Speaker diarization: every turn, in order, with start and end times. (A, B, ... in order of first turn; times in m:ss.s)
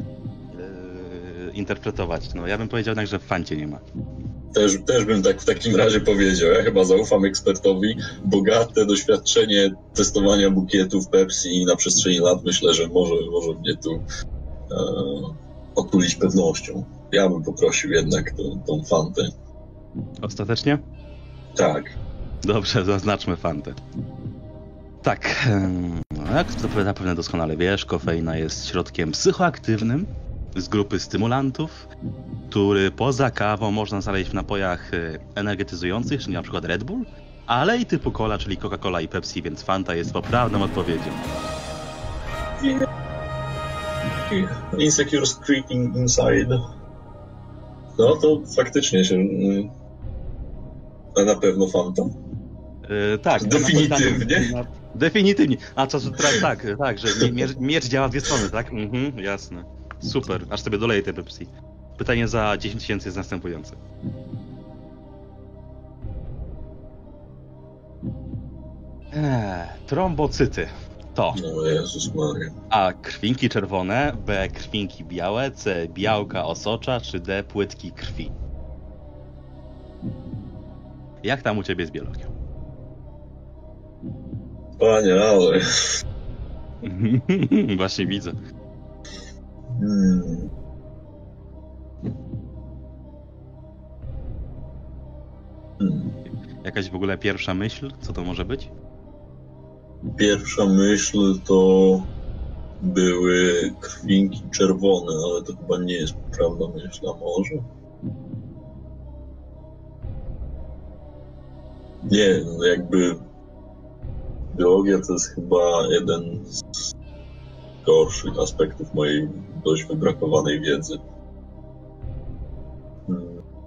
0:00.5-0:03.8 A
0:04.5-0:14.0 B
0:14.7-0:19.3 B
0:20.2-0:20.8 A
0:21.6-0:21.9 B
0:22.4-0:23.8 A
0:25.0-0:31.9 A
0:32.5-0:41.3 A
0:44.3-0:46.6 B
0:48.0-0:49.7 B
0:51.1-0:52.1 B
0:52.8-1:03.8 A
0:53.4-0:54.5 B
1:09.1-1:11.4 A
1:11.3-1:12.5 B
1:12.7-1:18.3 A
1:21.2-1:22.3 A
1:24.8-1:25.6 B
1:26.8-1:28.4 A
1:29.7-1:30.5 B
1:35.8-1:36.1 B
1:36.2-1:38.7 A
1:40.2-1:42.1 B
1:42.8-1:47.7 B
1:52.0-1:53.2 B
1:54.5-1:56.6 B
1:57.8-2:01.0 B
2:03.1-2:03.4 B